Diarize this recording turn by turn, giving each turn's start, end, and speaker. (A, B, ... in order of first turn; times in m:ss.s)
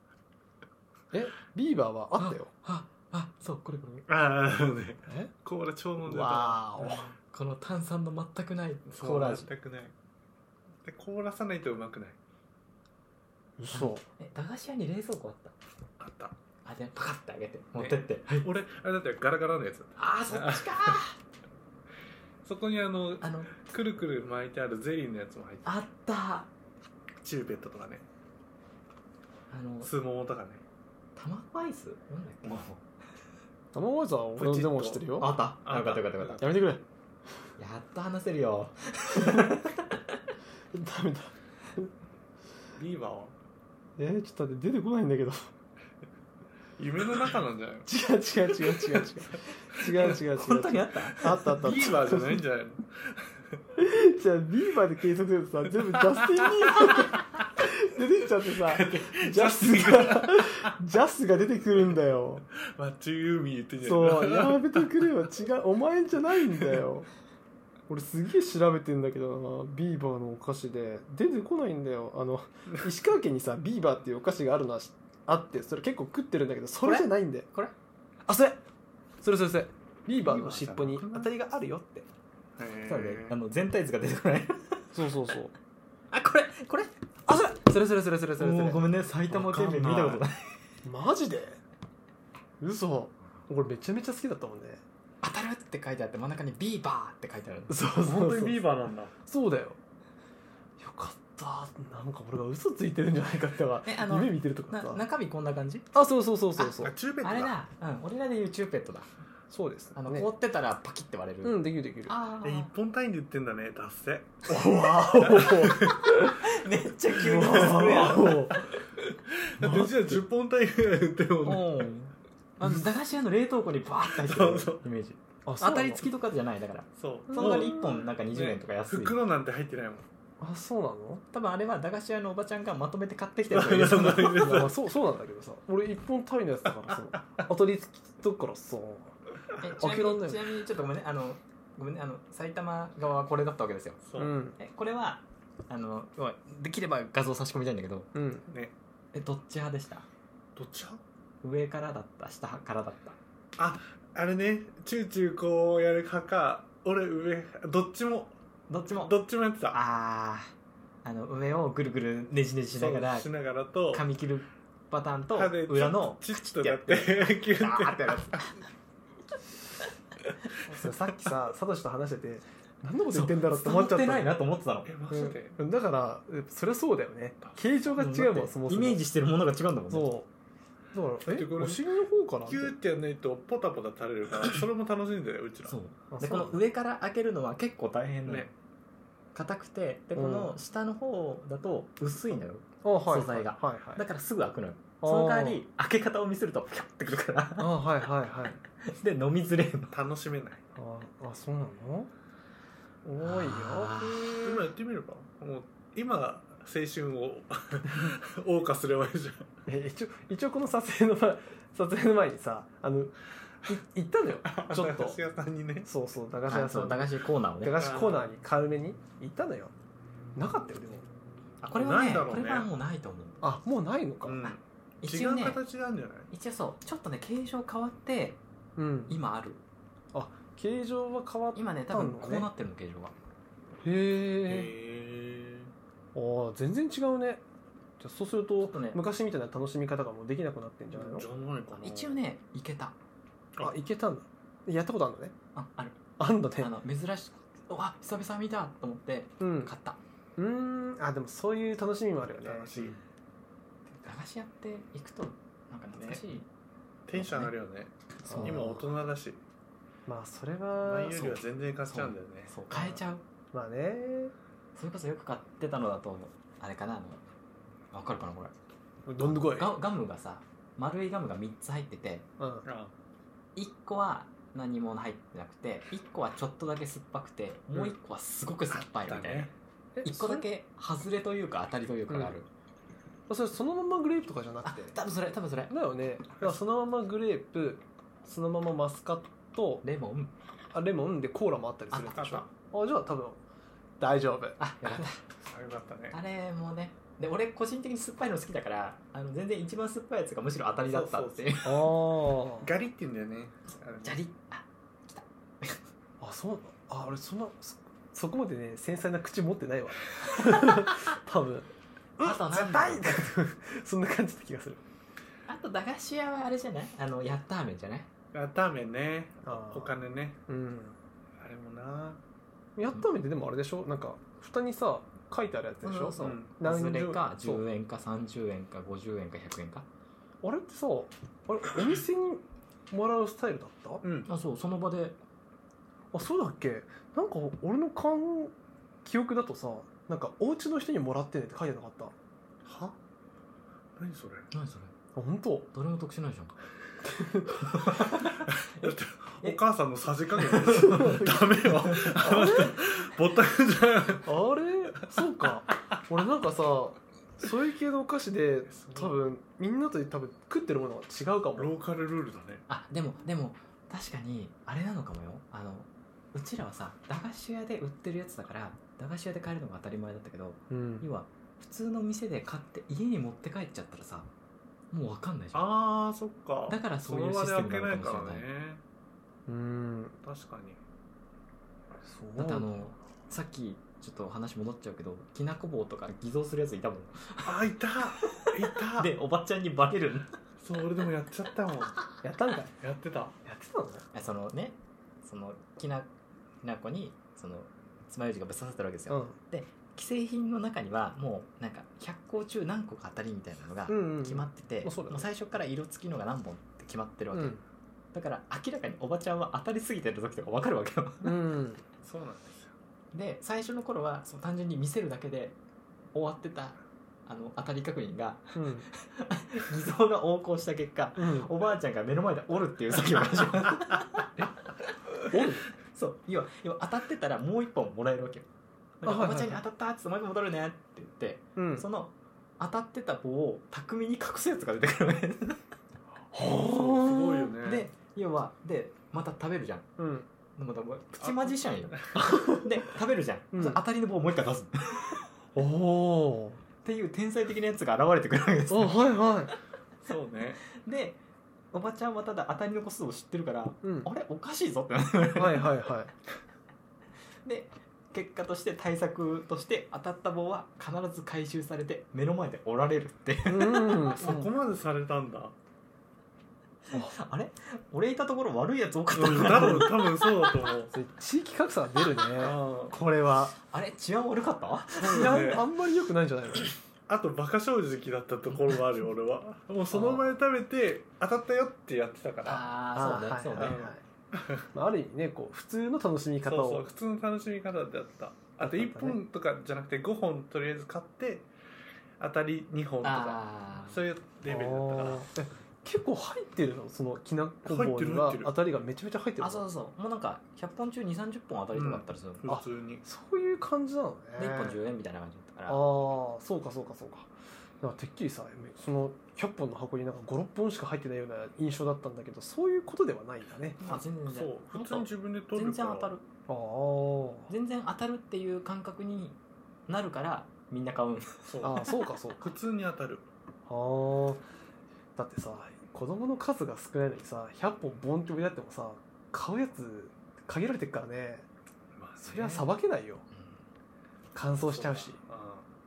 0:01.1-0:02.5 A
0:02.2-0:04.0 B
0:04.1-0:07.1 C
0:06.0-0:07.1 A
0:07.3-0:09.5 B
0:08.9-0:09.9 C
0:10.8-0:12.2 C
0:13.6-0:14.0 A
0:13.7-0:15.5 B
0:16.0-0:16.3 C
0:16.6-0:18.5 B
0:17.8-0:21.0 C
0:20.0-0:21.1 B
0:22.4-0:25.8 C
0:23.2-0:23.6 B
0:25.6-0:26.5 B
0:27.2-0:28.0 C
0:29.5-0:29.9 B
0:29.8-0:30.6 C
0:31.2-0:32.8 B
0:33.7-0:35.3 A
0:34.4-0:35.0 C
0:35.2-0:36.5 B
0:35.6-0:36.5 C
0:36.4-0:36.8 A
0:37.6-0:40.2 B
0:40.7-0:41.9 A
0:42.8-0:43.3 C
0:44.0-0:45.5 A
0:46.8-0:47.9 C
0:47.8-0:52.4 A
0:49.9-0:51.6 B
0:51.2-0:53.4 C
0:53.8-1:02.4 A
0:56.1-0:57.2 C
0:58.7-1:00.7 C
1:02.6-1:04.9 C
1:03.8-1:07.1 A
1:07.9-1:17.5 A
1:16.8-1:17.7 B
1:18.3-1:18.6 A
1:19.2-1:22.1 A
1:20.2-1:21.3 C
1:22.6-1:23.4 C
1:22.9-1:25.0 B
1:24.9-1:25.5 A
1:26.1-1:26.9 B
1:27.2-1:28.9 A
1:28.4-1:30.5 B
1:29.3-1:30.2 C
1:30.8-1:31.6 A
1:32.6-1:34.8 A
1:35.2-1:37.8 B
1:37.7-1:38.6 A
1:38.0-1:39.1 C
1:39.2-1:39.8 A
1:40.8-1:45.0 A
1:43.8-1:45.9 B
1:45.9-1:46.9 A
1:46.6-1:49.1 B
1:46.8-1:47.5 C
1:49.5-1:50.3 A
1:50.0-1:52.7 B
1:51.4-1:52.2 A
1:52.4-1:54.5 C
1:54.5-1:56.4 A
1:55.2-1:56.0 C
1:56.1-1:58.6 B
1:57.1-1:58.6 A
1:57.4-1:58.7 C
1:59.4-2:01.9 C
1:59.6-2:00.2 A
2:01.4-2:09.2 B
2:04.1-2:04.8 C
2:05.4-2:06.0 A
2:07.0-2:10.0 C
2:07.3-2:07.8 A
2:10.4-2:11.2 A
2:11.3-2:14.5 B
2:13.5-2:14.8 C
2:14.3-2:19.2 A
2:16.9-2:17.2 C
2:19.6-2:24.0 B
2:19.7-2:20.5 A
2:24.0-2:24.3 C
2:24.2-2:24.6 A
2:24.6-2:28.1 B
2:28.1-2:28.4 A
2:29.1-2:30.1 B
2:30.6-2:31.0 C
2:31.4-2:33.2 B
2:33.6-2:38.3 C
2:38.7-2:39.1 B
2:38.9-2:39.8 C
2:39.7-2:40.5 B
2:41.0-2:43.3 B
2:42.7-2:44.0 C
2:43.9-2:48.6 B
2:45.3-2:48.4 C
2:50.6-2:54.3 A
2:53.1-2:54.9 B
2:54.8-2:55.6 C
2:55.1-2:59.0 A
2:57.9-3:00.1 B
2:59.9-3:00.3 A
3:00.9-3:02.7 A
3:01.2-3:01.9 C
3:02.4-3:05.8 C
3:05.6-3:08.5 B
3:06.1-3:06.6 A
3:08.2-3:08.5 C
3:09.3-3:17.8 B
3:10.1-3:10.5 A
3:12.8-3:14.0 A
3:15.0-3:15.6 A
3:17.6-3:18.6 A
3:18.8-3:20.0 B
3:19.9-3:20.6 C
3:20.8-3:22.1 A
3:23.0-3:24.0 A
3:23.2-3:24.6 B
3:24.0-3:29.5 C
3:29.6-3:35.2 A
3:34.5-3:35.9 C
3:35.8-3:39.7 A
3:36.5-3:37.9 B
3:37.8-3:38.2 C
3:40.4-3:41.0 A
3:41.6-3:43.4 B
3:41.7-3:42.7 C
3:43.4-3:44.4 A
3:44.2-3:46.3 C
3:44.4-3:45.6 B
3:46.3-3:48.4 B
3:48.8-3:49.2 A
3:49.1-3:49.6 B
3:50.1-3:52.5 A
3:51.5-3:53.1 B
3:53.8-3:54.7 A
3:54.4-3:55.7 C
3:56.1-3:57.4 A
3:58.0-4:01.3 A
3:58.7-3:59.0 B
4:00.9-4:02.2 C
4:01.8-4:03.0 B
4:03.6-4:05.3 A
4:05.5-4:06.0 B
4:06.2-4:06.7 A
4:06.6-4:10.0 B
4:09.4-4:09.7 A
4:10.4-4:12.7 A
4:12.3-4:13.0 C
4:14.0-4:16.5 B
4:16.0-4:16.2 C
4:17.1-4:19.4 C
4:17.1-4:17.5 B
4:18.2-4:18.8 A
4:18.3-4:18.6 B
4:20.1-4:21.4 A
4:20.8-4:22.5 C
4:21.8-4:23.2 B
4:23.5-4:24.3 A
4:24.7-4:27.2 B
4:27.9-4:28.5 B
4:29.1-4:29.7 A
4:29.2-4:32.3 B
4:32.4-4:32.6 A
4:32.6-4:32.9 C
4:33.6-4:39.5 B
4:38.7-4:39.5 C
4:40.0-4:40.4 A
4:40.0-4:42.5 B
4:42.1-4:42.3 A
4:43.3-4:45.0 A
4:44.6-4:45.7 B
4:45.7-4:49.8 A
4:49.8-4:50.3 B
4:50.7-4:53.4 A
4:51.9-4:52.5 B
4:54.0-4:54.6 A
4:54.6-4:55.2 B
4:55.4-4:56.2 C
4:56.1-5:01.8 B
5:00.9-5:01.8 C
5:01.6-5:02.7 A
5:02.6-5:04.2 C
5:04.0-5:05.8 B
5:06.2-5:11.7 A
5:10.4-5:11.0 B
5:12.2-5:14.8 A
5:12.2-5:13.3 B
5:15.5-5:18.1 B
5:18.3-5:20.4 C
5:19.4-5:19.9 A
5:20.5-5:21.0 A
5:21.4-5:22.2 C
5:22.8-5:27.6 A
5:25.8-5:29.9 B
5:26.2-5:26.5 C
5:30.4-5:34.0 A
5:34.0-5:34.3 C
5:34.3-5:35.2 B
5:36.1-5:42.1 A
5:42.6-5:43.0 C
5:44.0-5:44.5 C
5:44.5-5:44.9 B
5:45.1-5:45.7 A
5:45.7-5:46.6 B
5:47.0-5:47.6 A
5:47.5-5:49.6 B
5:48.0-5:54.3 C
5:50.4-5:51.2 B
5:50.7-5:52.8 A
5:51.8-5:52.2 B
5:54.2-6:01.7 A
5:58.7-5:59.2 C
6:01.6-6:02.6 C
6:02.7-6:14.3 B
6:10.7-6:11.1 A
6:14.9-6:15.7 B
6:15.5-6:18.8 C
6:16.7-6:18.4 B
6:19.5-6:20.2 A
6:20.2-6:20.8 C
6:22.0-6:22.7 A
6:22.4-6:27.6 B
6:27.4-6:29.1 C
6:28.2-6:30.3 B
6:30.6-6:32.0 C
6:32.2-6:32.7 A
6:32.8-6:33.3 C
6:33.4-6:34.0 A
6:34.1-6:36.1 B
6:36.6-6:47.6 B
6:39.1-6:39.4 A
6:43.9-6:45.3 A
6:47.3-6:47.6 A
6:48.1-6:51.4 B
6:51.2-6:51.8 A
6:52.0-6:52.7 C
6:53.1-6:55.6 B
6:56.1-7:04.4 B
6:58.5-6:58.9 A
7:01.2-7:01.5 A
7:05.3-7:05.7 A
7:05.3-7:08.5 B
7:09.0-7:15.6 B
7:09.0-7:09.6 A
7:11.6-7:11.8 A
7:16.3-7:17.5 A
7:16.4-7:17.9 C
7:17.6-7:19.9 B
7:20.0-7:20.3 A
7:20.6-7:25.2 B
7:21.2-7:22.2 C
7:22.1-7:22.7 A
7:23.5-7:23.8 A
7:25.5-7:26.6 A
7:26.8-7:29.0 B
7:28.7-7:29.5 A
7:30.0-7:30.6 C
7:30.7-7:31.2 B
7:31.7-7:35.8 B
7:33.8-7:34.1 A
7:35.4-7:36.1 A
7:37.4-7:44.2 B
7:43.4-7:44.5 A
7:44.1-7:45.5 C
7:46.9-7:50.5 B
7:49.1-7:50.9 C
7:50.9-7:53.6 A
7:52.4-7:53.0 C
7:53.6-7:55.6 B
7:55.0-7:55.6 C
7:55.0-7:56.7 A
7:57.1-8:02.7 C
7:59.9-8:00.2 A
8:02.4-8:03.8 B
8:02.9-8:04.0 A
8:03.6-8:03.9 C
8:04.7-8:06.8 A
8:06.4-8:11.5 C
8:08.6-8:09.2 A
8:12.2-8:15.3 C
8:13.0-8:14.0 B
8:14.5-8:19.6 A
8:17.6-8:18.5 C
8:19.4-8:22.5 B
8:21.7-8:23.0 C
8:22.5-8:24.8 A
8:24.4-8:25.8 B
8:25.7-8:27.3 A
8:27.8-8:33.8 A
8:33.8-8:36.2 B
8:33.8-8:36.1 C
8:36.5-8:37.5 A
8:37.5-8:41.8 B
8:41.5-8:43.3 C
8:41.6-8:42.4 A
8:43.7-8:44.4 A
8:45.2-8:51.5 A
8:51.9-8:52.7 C
8:52.2-8:53.2 A
8:53.3-8:53.6 B
8:54.3-8:55.2 A
8:54.6-8:55.7 C